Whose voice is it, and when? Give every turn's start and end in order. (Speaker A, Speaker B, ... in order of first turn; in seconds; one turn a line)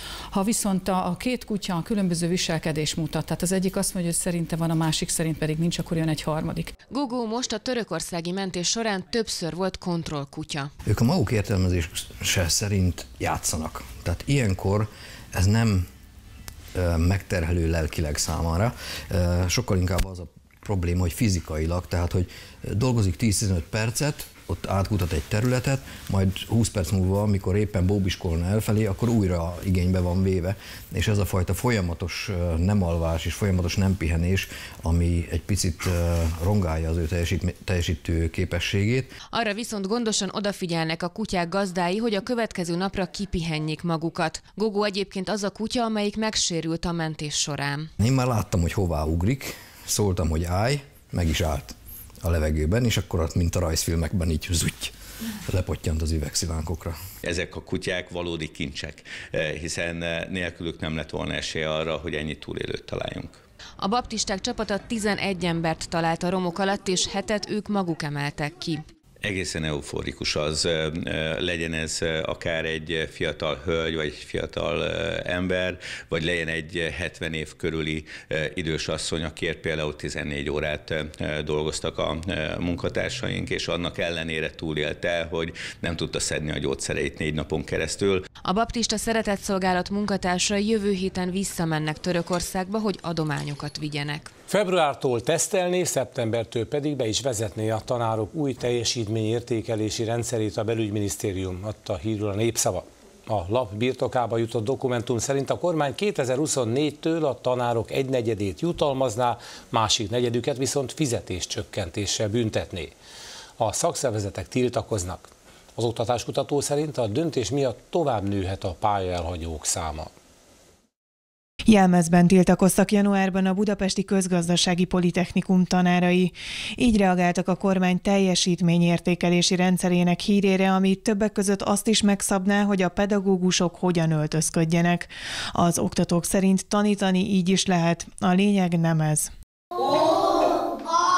Speaker A: 0.3-6.7
Speaker B: 6.9-10.7
Speaker C: 10.8-15.9
Speaker C: 16.8-39.1
Speaker B: 39.3-47.9
Speaker C: 48.0-54.9
Speaker C: 55.5-57.0
Speaker D: 57.2-63.4
Speaker B: 63.8-68.8
Speaker D: 69.2-88.2
Speaker B: 88.4-94.3
Speaker E: 94.5-113.0
Speaker E: 113.6-120.1
Speaker F: 121.7-139.3